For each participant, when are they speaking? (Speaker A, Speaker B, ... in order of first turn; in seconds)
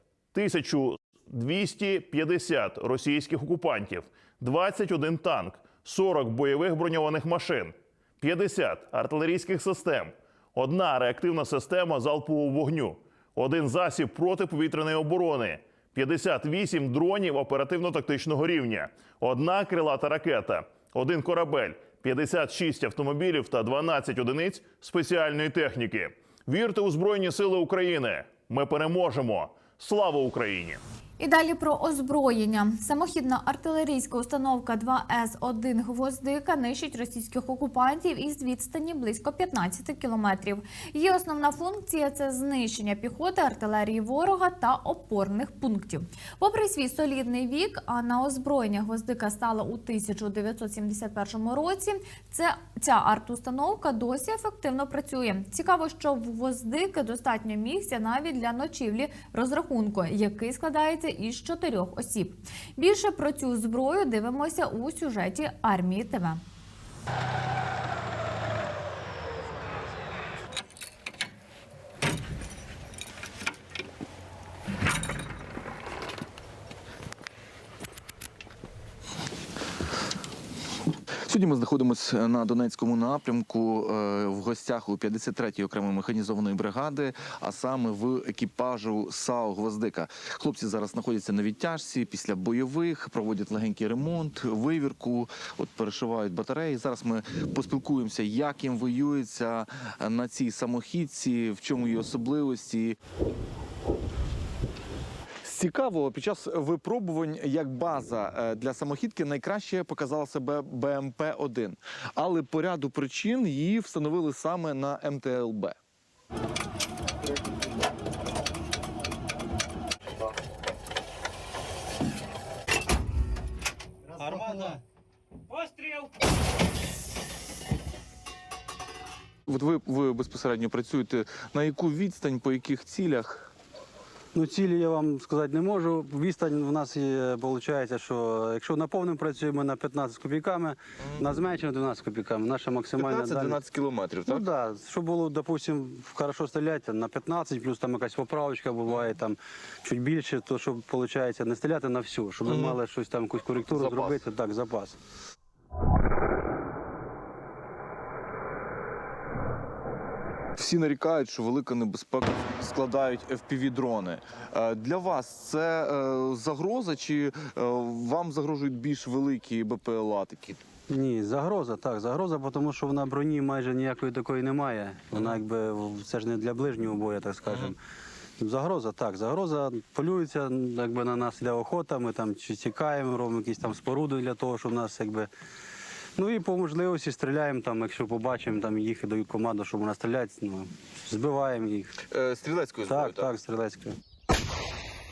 Speaker A: 0.3-30.8
Speaker B: 31.2-66.4
Speaker C: 81.2-103.0, 105.4-115.8, 129.5-133.5, 143.0-144.5, 152.4-152.8, 153.7-154.2, 160.6-170.6, 177.5-177.7, 192.1-193.3
Speaker D: 124.2-124.8, 134.3-143.6, 144.3-154.9, 170.9-177.8, 178.4-185.3, 186.2-192.0, 192.9-193.9